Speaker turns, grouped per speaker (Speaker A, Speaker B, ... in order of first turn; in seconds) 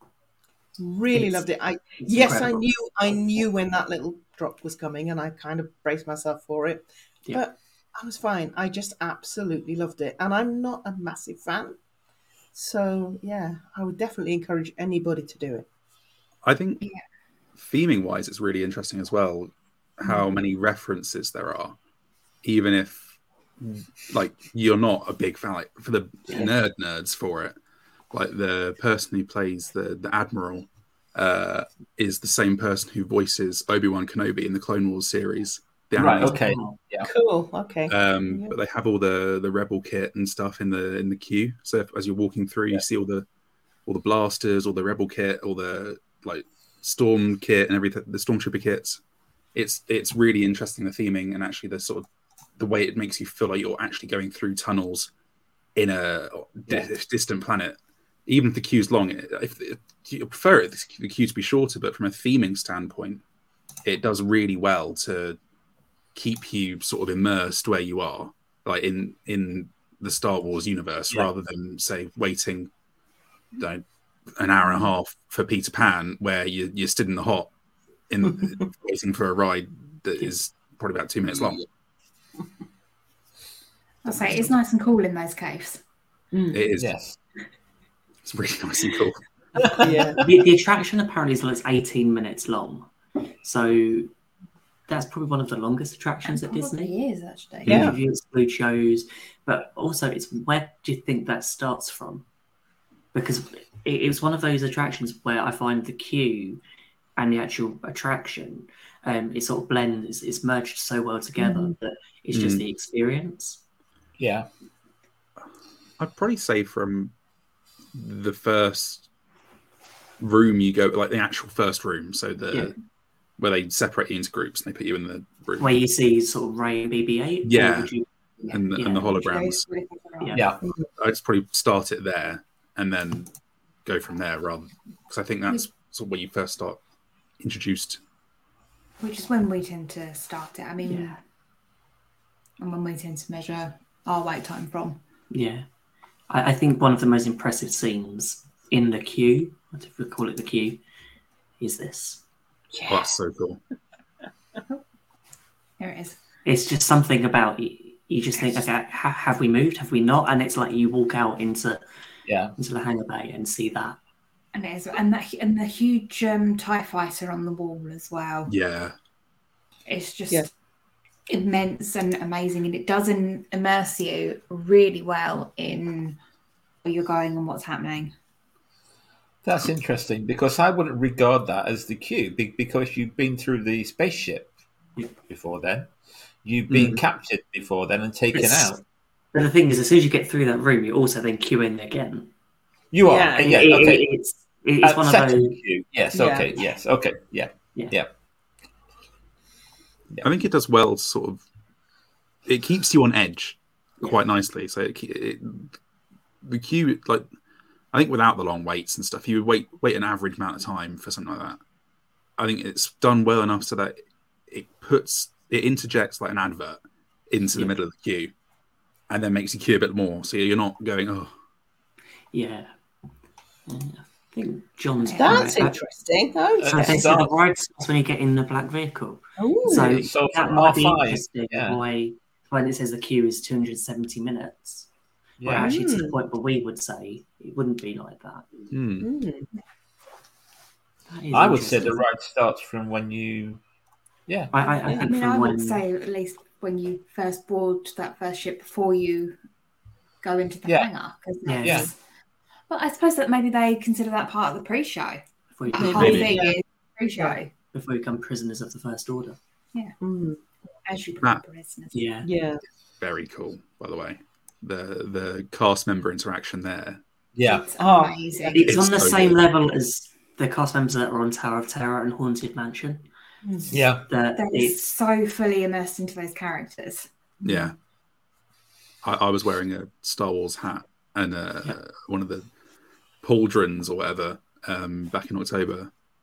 Speaker A: 0.8-11.8, 12.5-15.7, 37.0-38.5, 86.3-86.6, 89.8-90.2, 97.7-98.0, 111.4-111.7, 152.7-153.1, 193.0-193.7, 196.1-196.5, 225.2-226.9, 229.4-230.0, 235.6-236.2, 239.0-239.5, 255.8-256.6, 260.0-260.4, 262.2-262.6, 267.8-268.7, 277.4-277.7
Speaker B: 1.1-1.4, 2.0-2.6, 36.2-36.8, 89.8-92.9, 93.4-94.1, 94.9-96.9, 97.7-102.2, 103.1-106.6, 107.2-113.6, 125.6-128.1, 128.7-129.2, 130.2-130.5, 140.8-141.2, 145.3-145.7, 146.3-150.8, 151.6-152.2, 156.4-161.8, 162.6-164.0, 188.3-188.8, 189.3-192.3, 193.4-195.6, 222.3-222.7, 223.7-225.8, 226.6-234.9, 235.4-238.5, 241.1-242.0, 244.5-245.8, 251.5-251.9, 255.6-256.4, 257.7-259.4, 261.9-262.3, 268.5-273.1, 274.1-274.8
Speaker C: 16.4-16.8, 17.6-21.8, 22.4-27.6, 28.1-36.4, 37.9-43.3, 43.9-49.0, 49.5-52.1, 52.6-55.1, 55.8-63.2, 63.9-65.4, 66.2-72.7, 73.6-73.8, 74.4-77.5, 78.1-81.6, 86.5-86.9, 88.2-89.2, 112.3-112.6, 116.0-117.1, 118.0-119.1, 120.2-122.7, 123.4-125.7, 127.5-127.9, 128.5-129.7, 131.0-133.3, 133.8-136.8, 137.4-138.0, 152.9-153.6, 168.5-168.9, 186.7-187.0, 200.2-201.4, 202.5-205.8, 206.4-207.3, 207.9-211.6, 212.4-214.0, 214.5-218.3, 219.1-221.3, 238.7-239.1, 263.0-267.0, 268.7-269.4, 277.4-277.8, 279.0-282.5, 283.2-285.9
Speaker D: 36.0-37.1, 86.8-87.2, 89.6-90.1, 114.2-114.5, 130.3-130.6, 162.3-162.5, 179.4-184.5, 185.3-185.9, 186.4-188.8, 192.9-194.1, 194.8-198.1, 226.6-227.3, 229.7-231.8, 235.4-235.8, 241.3-243.6, 244.3-244.5, 251.6-251.9, 267.4-267.7, 273.7-274.1
Speaker E: 84.0-85.8, 96.2-97.8, 128.4-130.4, 139.0-141.2, 142.6-145.0, 155.8-156.2, 164.5-168.5, 169.9-170.5, 171.3-176.2, 176.8-178.1, 225.1-225.5, 244.8-249.4, 250.2-251.9, 252.7-257.5, 260.9-262.0, 267.5-268.7, 274.4-277.1